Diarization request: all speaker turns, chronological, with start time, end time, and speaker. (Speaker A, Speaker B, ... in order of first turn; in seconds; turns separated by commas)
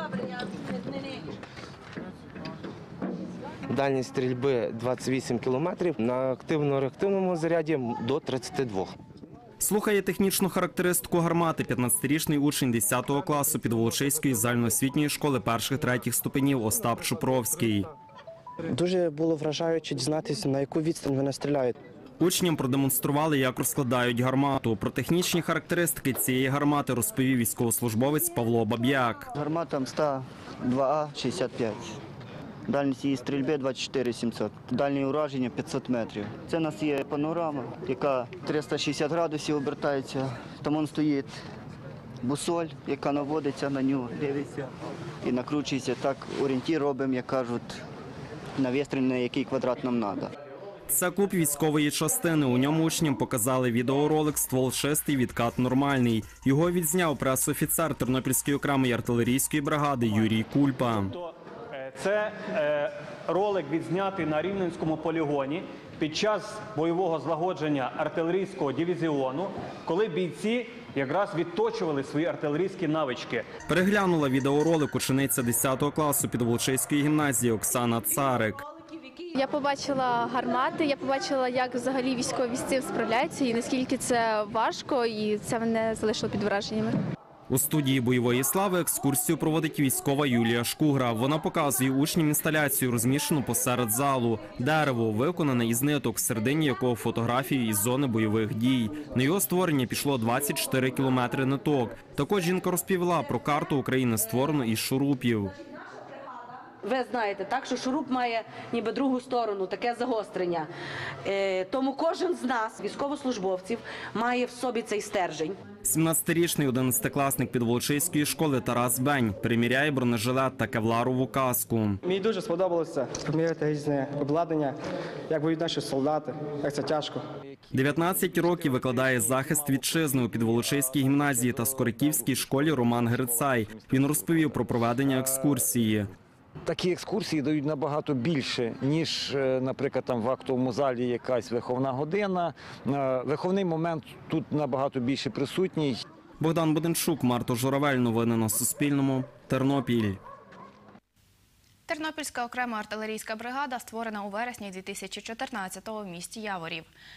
Speaker A: 3.7-8.9, Speaker B: 9.6-17.9, Speaker C: 18.7-21.8, Speaker B: 22.2-29.3, Speaker D: 29.3-32.0, Speaker D: 32.7-41.4, Speaker D: 42.2-44.7, Speaker D: 45.2-47.8, Speaker D: 48.6-50.3, Speaker B: 50.9-61.1, Speaker E: 61.0-73.5, Speaker B: 73.7-78.6, Speaker F: 79.3-87.0, Speaker B: 87.5-105.5, Speaker G: 106.8-110.7, Speaker G: 111.2-115.5, Speaker B: 115.8-122.0, Speaker C: 122.0-124.7, Speaker C: 125.3-127.2, Speaker H: 127.5-135.6, Speaker B: 127.7-136.1, Speaker H: 136.7-146.0, Speaker B: 146.4-150.2, Speaker I: 151.9-156.9